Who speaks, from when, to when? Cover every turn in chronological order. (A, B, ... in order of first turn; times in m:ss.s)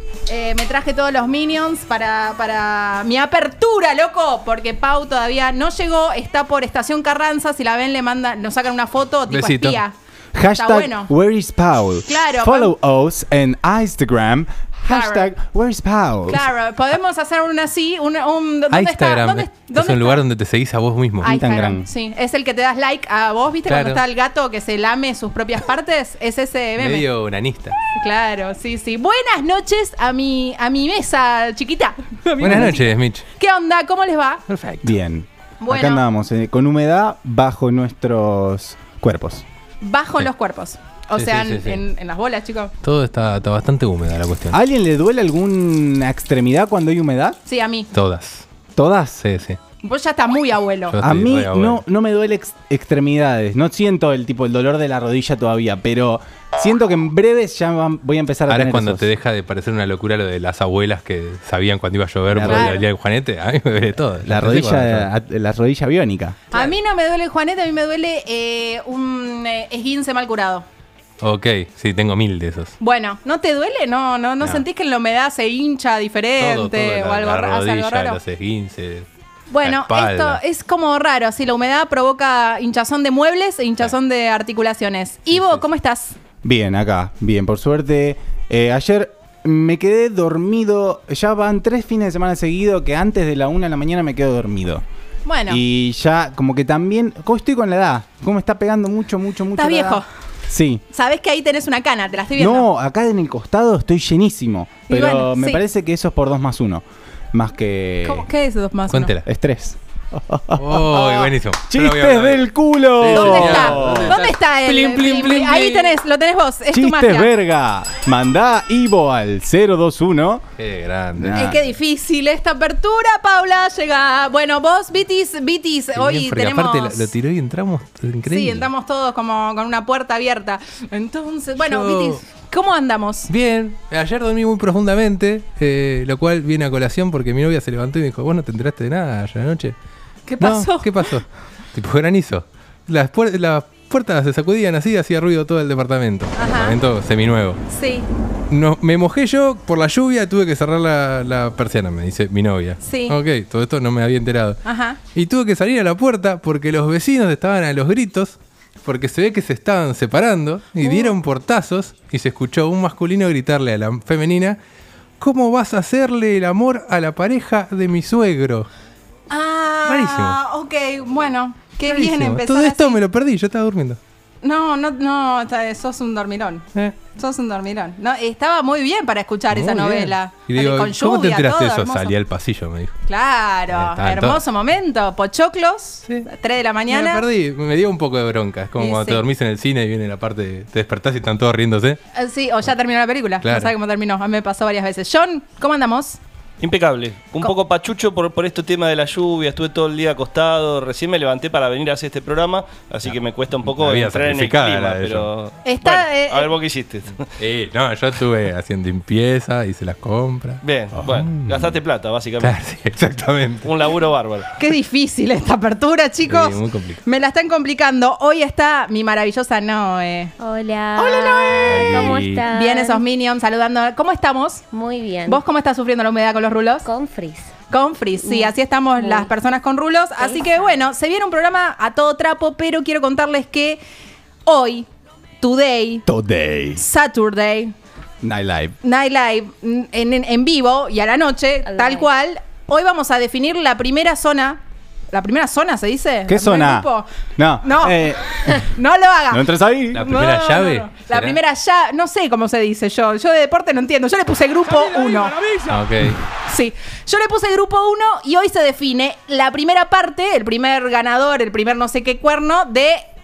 0:00.3-0:09.9 A
0:09.3-0:09.8 B
0:10.3-0:16.4 C
0:10.5-0:11.1 A
0:12.0-0:12.7 A
0:14.9-0:15.3 A
0:16.3-0:20.2 A
0:18.7-0:21.3 B
0:21.2-0:21.8 C
0:21.2-0:27.0 A
0:23.7-0:24.0 B
0:26.8-0:27.8 B
0:27.9-0:34.4 A
0:32.4-0:33.2 B
0:34.5-0:34.9 B
0:34.8-0:39.4 C
0:35.6-0:36.0 A
0:39.8-0:42.7 A
0:41.1-0:41.8 B
0:42.8-0:44.6 B
0:44.5-0:47.4 C
0:47.4-0:47.9 A
0:47.9-0:48.4 B
0:48.8-0:49.2 C
0:49.2-0:49.6 B
0:49.8-0:51.0 A
0:50.9-0:51.8 B
0:51.0-0:59.0 C
0:58.5-1:05.1 B
1:02.3-1:02.7 C
1:02.5-1:02.8 A
1:04.2-1:06.4 C
1:06.5-1:10.6 A
1:11.2-1:12.7 B
1:12.8-1:18.2 A
1:16.4-1:19.1 B
1:19.5-1:26.1 A
1:19.6-1:20.4 B
1:25.3-1:25.6 B
1:26.4-1:34.8 C
1:35.2-1:35.6 A
1:35.5-1:40.8 C
1:39.5-1:40.0 A
1:40.9-1:42.6 A
1:42.4-1:48.3 C
1:44.9-1:45.6 A
1:48.0-1:49.1 A
1:48.9-1:49.2 B
1:49.2-1:54.2 C
1:50.6-1:56.0 B
1:53.1-1:57.3 A
1:56.7-2:00.4 C
2:00.6-2:01.6 B
2:01.2-2:01.6 C
2:01.3-2:07.1 A
2:05.9-2:08.7 B
2:08.2-2:13.3 A
2:11.6-2:12.2 B
2:13.3-2:19.7 B
2:20.3-2:20.9 A
2:20.4-2:27.6 B
2:26.4-2:26.8 A
2:27.7-2:28.1 A
2:28.5-2:34.6 B
2:32.8-2:33.1 A
2:34.6-2:35.0 A
2:35.1-2:44.6 B
2:40.8-2:41.1 A
2:45.2-2:48.7 B
2:49.3-2:53.0 A
2:49.8-2:50.4 B
2:51.9-2:54.0 B
2:54.4-3:02.2 A
2:59.5-3:02.9 B
3:03.1-3:07.2 A
3:03.7-3:04.4 B
3:06.9-3:12.0 B
3:08.8-3:09.2 A
3:12.1-3:16.2 A
3:13.4-3:13.7 B
3:16.6-3:27.2 D
3:23.6-3:25.3 B
3:25.6-3:26.5 A
3:27.4-3:31.3 B
3:30.6-3:32.6 D
3:32.4-3:33.7 B
3:33.6-3:34.5 D
3:34.6-3:40.3 A
3:36.3-3:37.0 B
3:40.4-3:43.0 E
3:41.0-3:42.4 C
3:42.5-3:44.6 A
3:44.7-3:45.4 E
3:45.2-3:46.8 A
3:46.8-3:47.5 E
3:47.7-3:53.8 A
3:48.2-3:49.3 E
3:50.2-3:50.8 E
3:54.4-3:54.8 A
3:55.4-3:56.0 A
3:56.0-3:56.8 C
3:56.8-3:57.7 A
3:58.2-3:58.8 C
3:58.8-4:04.6 A
4:01.7-4:02.1 E
4:05.1-4:07.0 A
4:06.3-4:08.7 C
4:07.6-4:15.3 A
4:09.3-4:10.0 C
4:09.9-4:11.4 B
4:15.7-4:16.2 B
4:16.4-4:23.0 A